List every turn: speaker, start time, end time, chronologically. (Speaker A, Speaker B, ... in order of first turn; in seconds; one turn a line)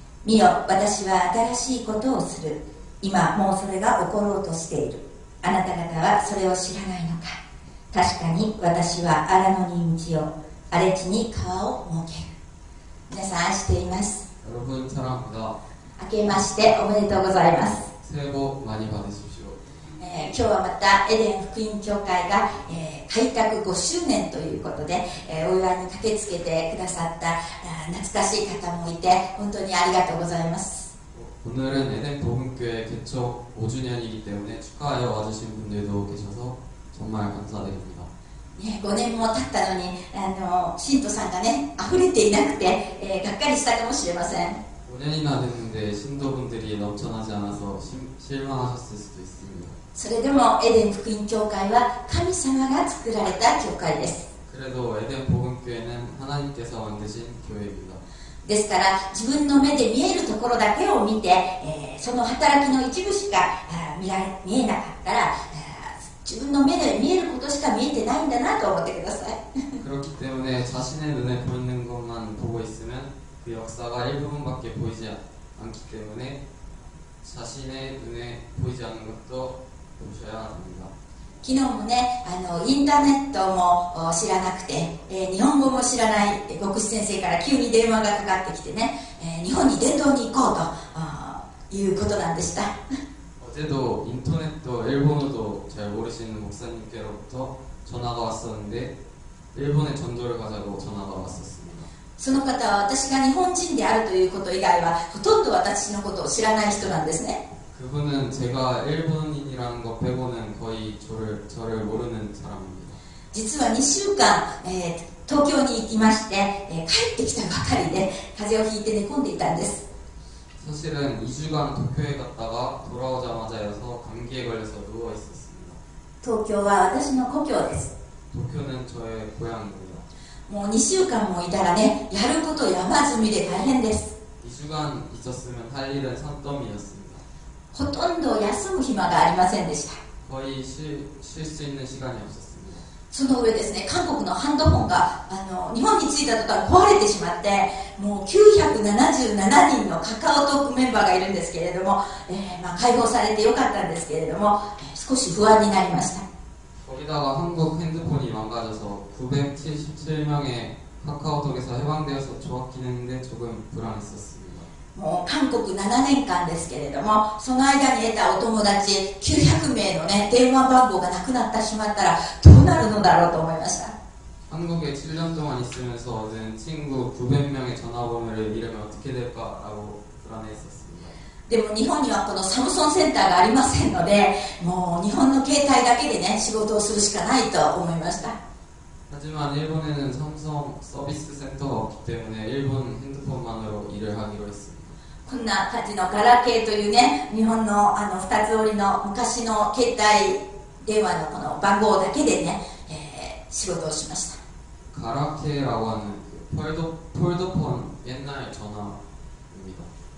Speaker A: 0.2-7.4
Speaker A: 7.9-12.3
Speaker A: 13.1-14.3
Speaker B: 14.4-15.6
Speaker A: 16.0-17.9
Speaker B: 18.0-19.6
Speaker A: 20.0-30.9
Speaker B: 31.1-38.1
Speaker A: 38.6-44.6
Speaker B: 44.9-49.8
Speaker A: 50.0-54.3
Speaker B: 54.5-58.0
Speaker A: 58.5-69.8
Speaker B: 69.8-76.4
Speaker B: 77.2-80.9
Speaker A: 81.4-92.8
Speaker B: 93.4-98.9
Speaker B: 99.5-101.9
Speaker A: 102.2-107.4
Speaker B: 107.7-113.0
Speaker A: 113.3-119.8
Speaker B: 120.6-125.8
Speaker A: 126.2-127.9
Speaker B: 128.3-130.0
Speaker A: 130.5-134.1
Speaker B: 134.4-137.2
Speaker A: 137.7-140.0
Speaker B: 140.2-142.9
Speaker A: 143.1-156.2
Speaker B: 156.8-164.7
Speaker A: 164.9-173.9
Speaker B: 174.5-181.2
Speaker A: 181.5-188.4
Speaker B: 189.1-194.9
Speaker A: 195.3-204.4
Speaker B: 204.9-209.0
Speaker B: 209.5-209.9